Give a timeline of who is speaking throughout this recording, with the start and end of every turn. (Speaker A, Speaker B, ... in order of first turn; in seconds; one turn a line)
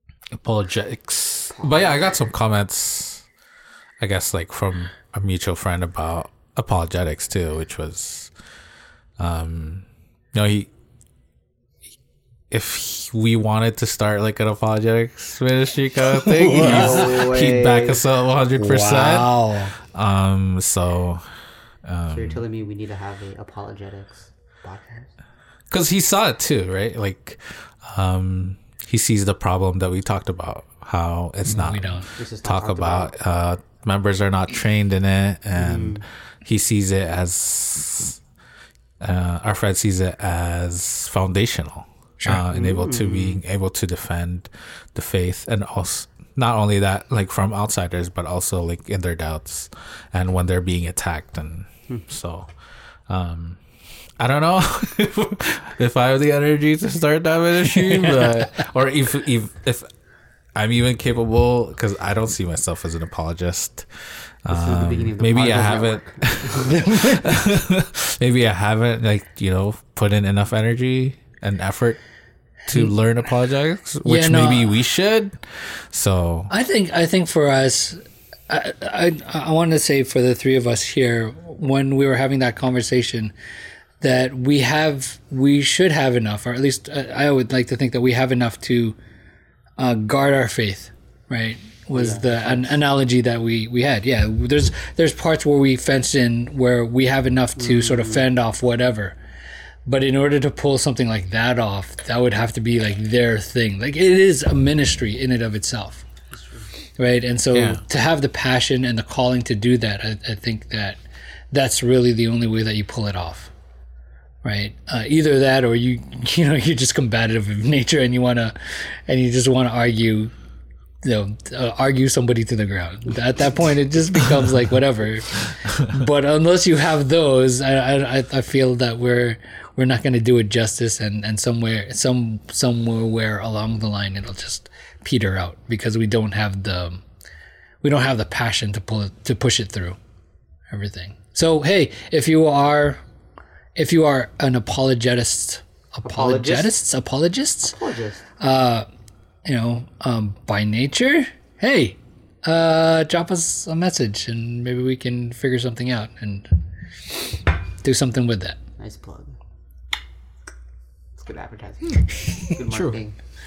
Speaker A: 0.3-3.2
Speaker A: 4.0-8.3
Speaker A: 9.2-10.7
Speaker A: 12.5-21.2
Speaker B: 16.2-17.1
Speaker C: 16.5-18.0
Speaker B: 18.6-19.7
Speaker A: 21.9-22.4
Speaker C: 22.1-25.1
Speaker A: 25.7-38.2
Speaker B: 31.5-32.1
Speaker C: 32.2-33.1
Speaker C: 35.5-36.0
Speaker A: 39.0-52.5
Speaker C: 42.5-43.4
Speaker A: 53.1-53.6
Speaker A: 54.2-59.9
Speaker B: 57.9-58.4
Speaker A: 60.5-72.0
Speaker C: 64.5-66.8
Speaker B: 66.6-67.4
Speaker A: 72.7-76.5
Speaker B: 74.0-74.7
Speaker B: 76.5-83.3
Speaker B: 84.0-89.0
Speaker B: 89.8-99.2
Speaker C: 91.9-92.8
Speaker C: 97.6-98.3
Speaker B: 99.9-106.0
Speaker C: 106.3-106.7
Speaker B: 107.0-111.0
Speaker A: 107.5-107.8
Speaker B: 111.5-113.5
Speaker B: 114.4-120.3
Speaker B: 121.0-137.0
Speaker B: 137.8-140.0
Speaker B: 140.7-143.0
Speaker B: 143.8-147.8
Speaker C: 146.1-146.8
Speaker C: 147.7-148.2
Speaker B: 148.4-148.9
Speaker B: 149.4-156.6
Speaker B: 157.8-158.6
Speaker C: 158.8-159.4
Speaker C: 161.2-163.2
Speaker A: 162.7-163.0